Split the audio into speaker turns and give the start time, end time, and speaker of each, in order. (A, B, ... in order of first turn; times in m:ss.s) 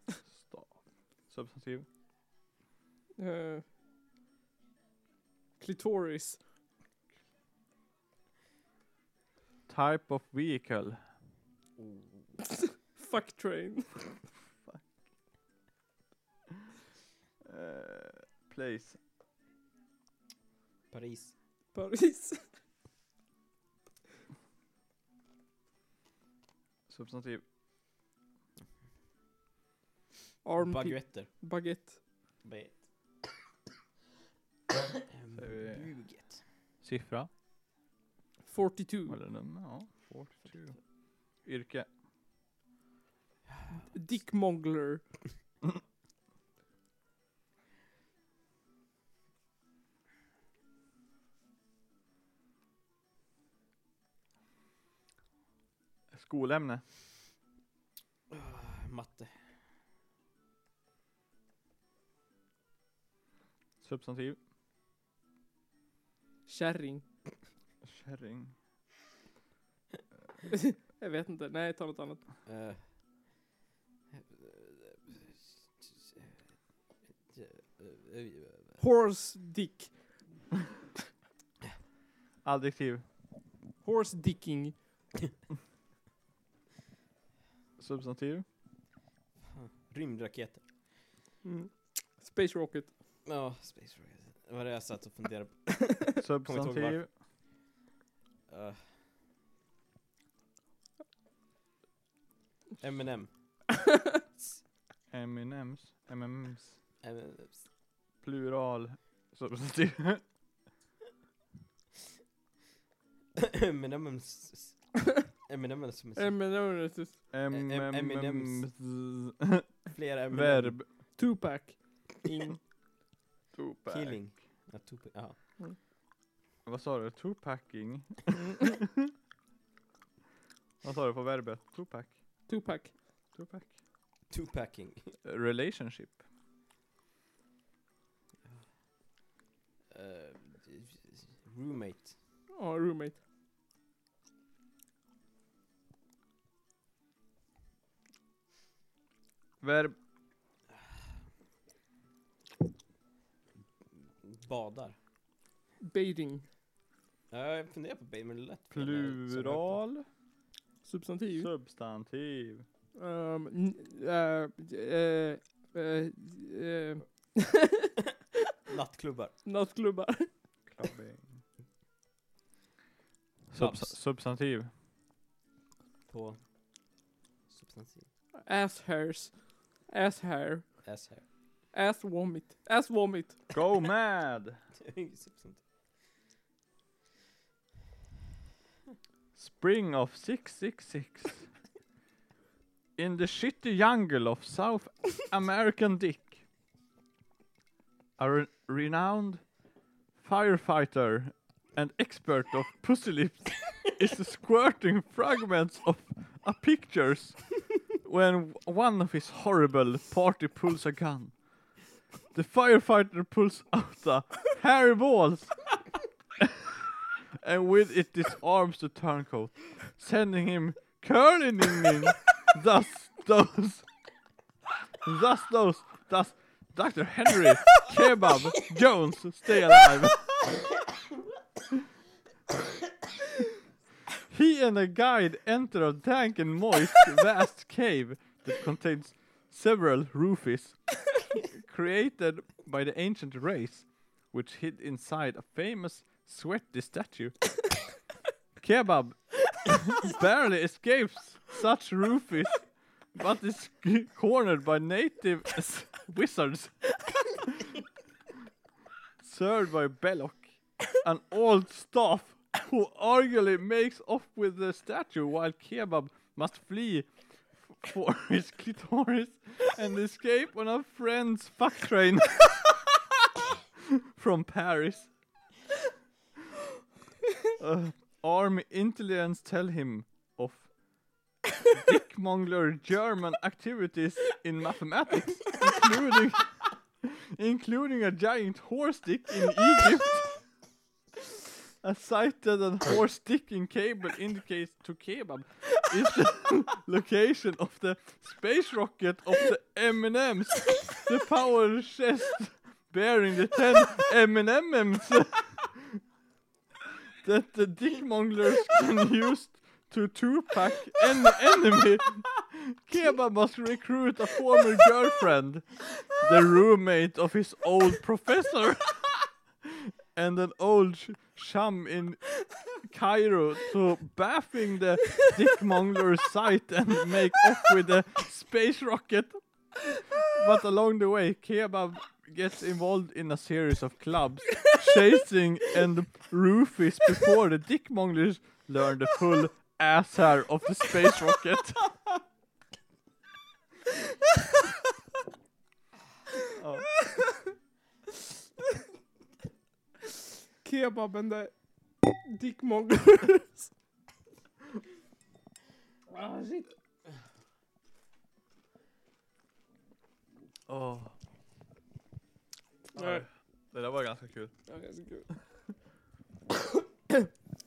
0:00.3-0:01.8 A
0:03.2-0:03.6 B
0:05.6-0:06.4 B
0:09.7-0:11.0 A
0:11.8-0:12.0 C
0:12.5-0:14.0 B
0:17.4-0:19.0 A
0:20.9-0:21.3 C
0:21.7-0:22.5 B
0:26.9-0:27.4 A
0:30.4-0:32.0 B
0:30.6-0:31.3 C
0:32.4-0:32.9 C
0:34.7-0:36.4 C
0:35.3-0:36.0 A
0:36.8-0:37.3 A
0:38.4-0:39.2 B
0:39.1-0:40.8 A
0:41.4-0:41.9 A
0:43.5-0:43.9 C
0:43.9-0:45.0 B
0:56.1-0:56.8 A
0:58.3-0:59.4 C
1:03.8-1:04.4 A
1:06.5-1:07.0 B
1:07.8-1:08.5 A
1:10.5-1:12.2 B
1:12.4-1:12.9 C
1:14.1-1:16.6 C
1:17.3-1:18.8 C
1:18.8-1:20.1 B
1:22.4-1:23.0 A
1:23.8-1:24.8 B
1:27.8-1:28.4 A
1:29.4-1:30.7 C
1:31.4-1:32.9 B
1:33.2-1:37.0 C
1:36.2-1:37.1 A
1:38.5-1:39.0 C
1:42.8-1:43.3 C
1:45.1-1:46.8 A
1:47.0-1:47.7 C
1:48.2-1:50.2 A
1:53.4-1:56.4 C
1:56.2-1:57.2 B
1:57.3-2:00.9 A
1:57.5-1:58.7 C
1:59.9-2:00.8 C
2:01.2-2:02.6 B
2:03.5-2:04.4 A
2:03.9-2:05.4 C
2:06.6-2:09.1 A
2:10.8-2:12.2 A
2:12.5-2:12.9 B
2:13.3-2:13.7 A
2:14.3-2:15.1 C
2:15.2-2:16.2 A
2:19.9-2:22.1 C
2:22.5-2:23.2 B
2:29.6-2:29.9 A
2:34.2-2:35.0 C
2:35.8-2:36.4 B
2:37.3-2:39.8 C
2:38.7-2:40.0 A
2:40.8-2:41.5 B
2:41.3-2:42.6 A
2:43.0-2:47.9 B
2:48.7-2:49.4 C
2:49.4-2:50.3 B
2:50.6-2:51.4 A
2:53.5-2:54.7 A
2:53.5-2:54.0 C
2:56.0-2:56.4 C
2:57.5-2:58.1 C
2:58.4-3:00.8 B
3:00.8-3:01.2 C
3:01.7-3:03.4 B
3:03.5-3:04.6 A
3:04.8-3:05.6 C
3:09.3-3:11.5 A
3:13.0-3:16.4 A
3:18.2-3:19.5 A
3:20.2-3:31.8 A
3:32.3-3:35.7 A
3:37.4-3:43.8 A
3:45.0-3:50.4 A
3:54.3-4:07.5 A
4:08.6-4:17.7 A
4:19.2-4:33.0 A
4:34.1-4:35.1 A
4:37.6-4:40.7 A
4:41.8-4:50.4 A
4:51.8-5:06.0 A
5:07.2-5:42.0 A
5:46.6-5:46.9 A
5:50.6-5:51.6 B
5:52.2-5:53.7 B
5:56.1-5:56.7 B
6:00.7-6:01.1 A
6:02.9-6:03.2 B
6:02.9-6:04.5 A
6:04.7-6:05.3 B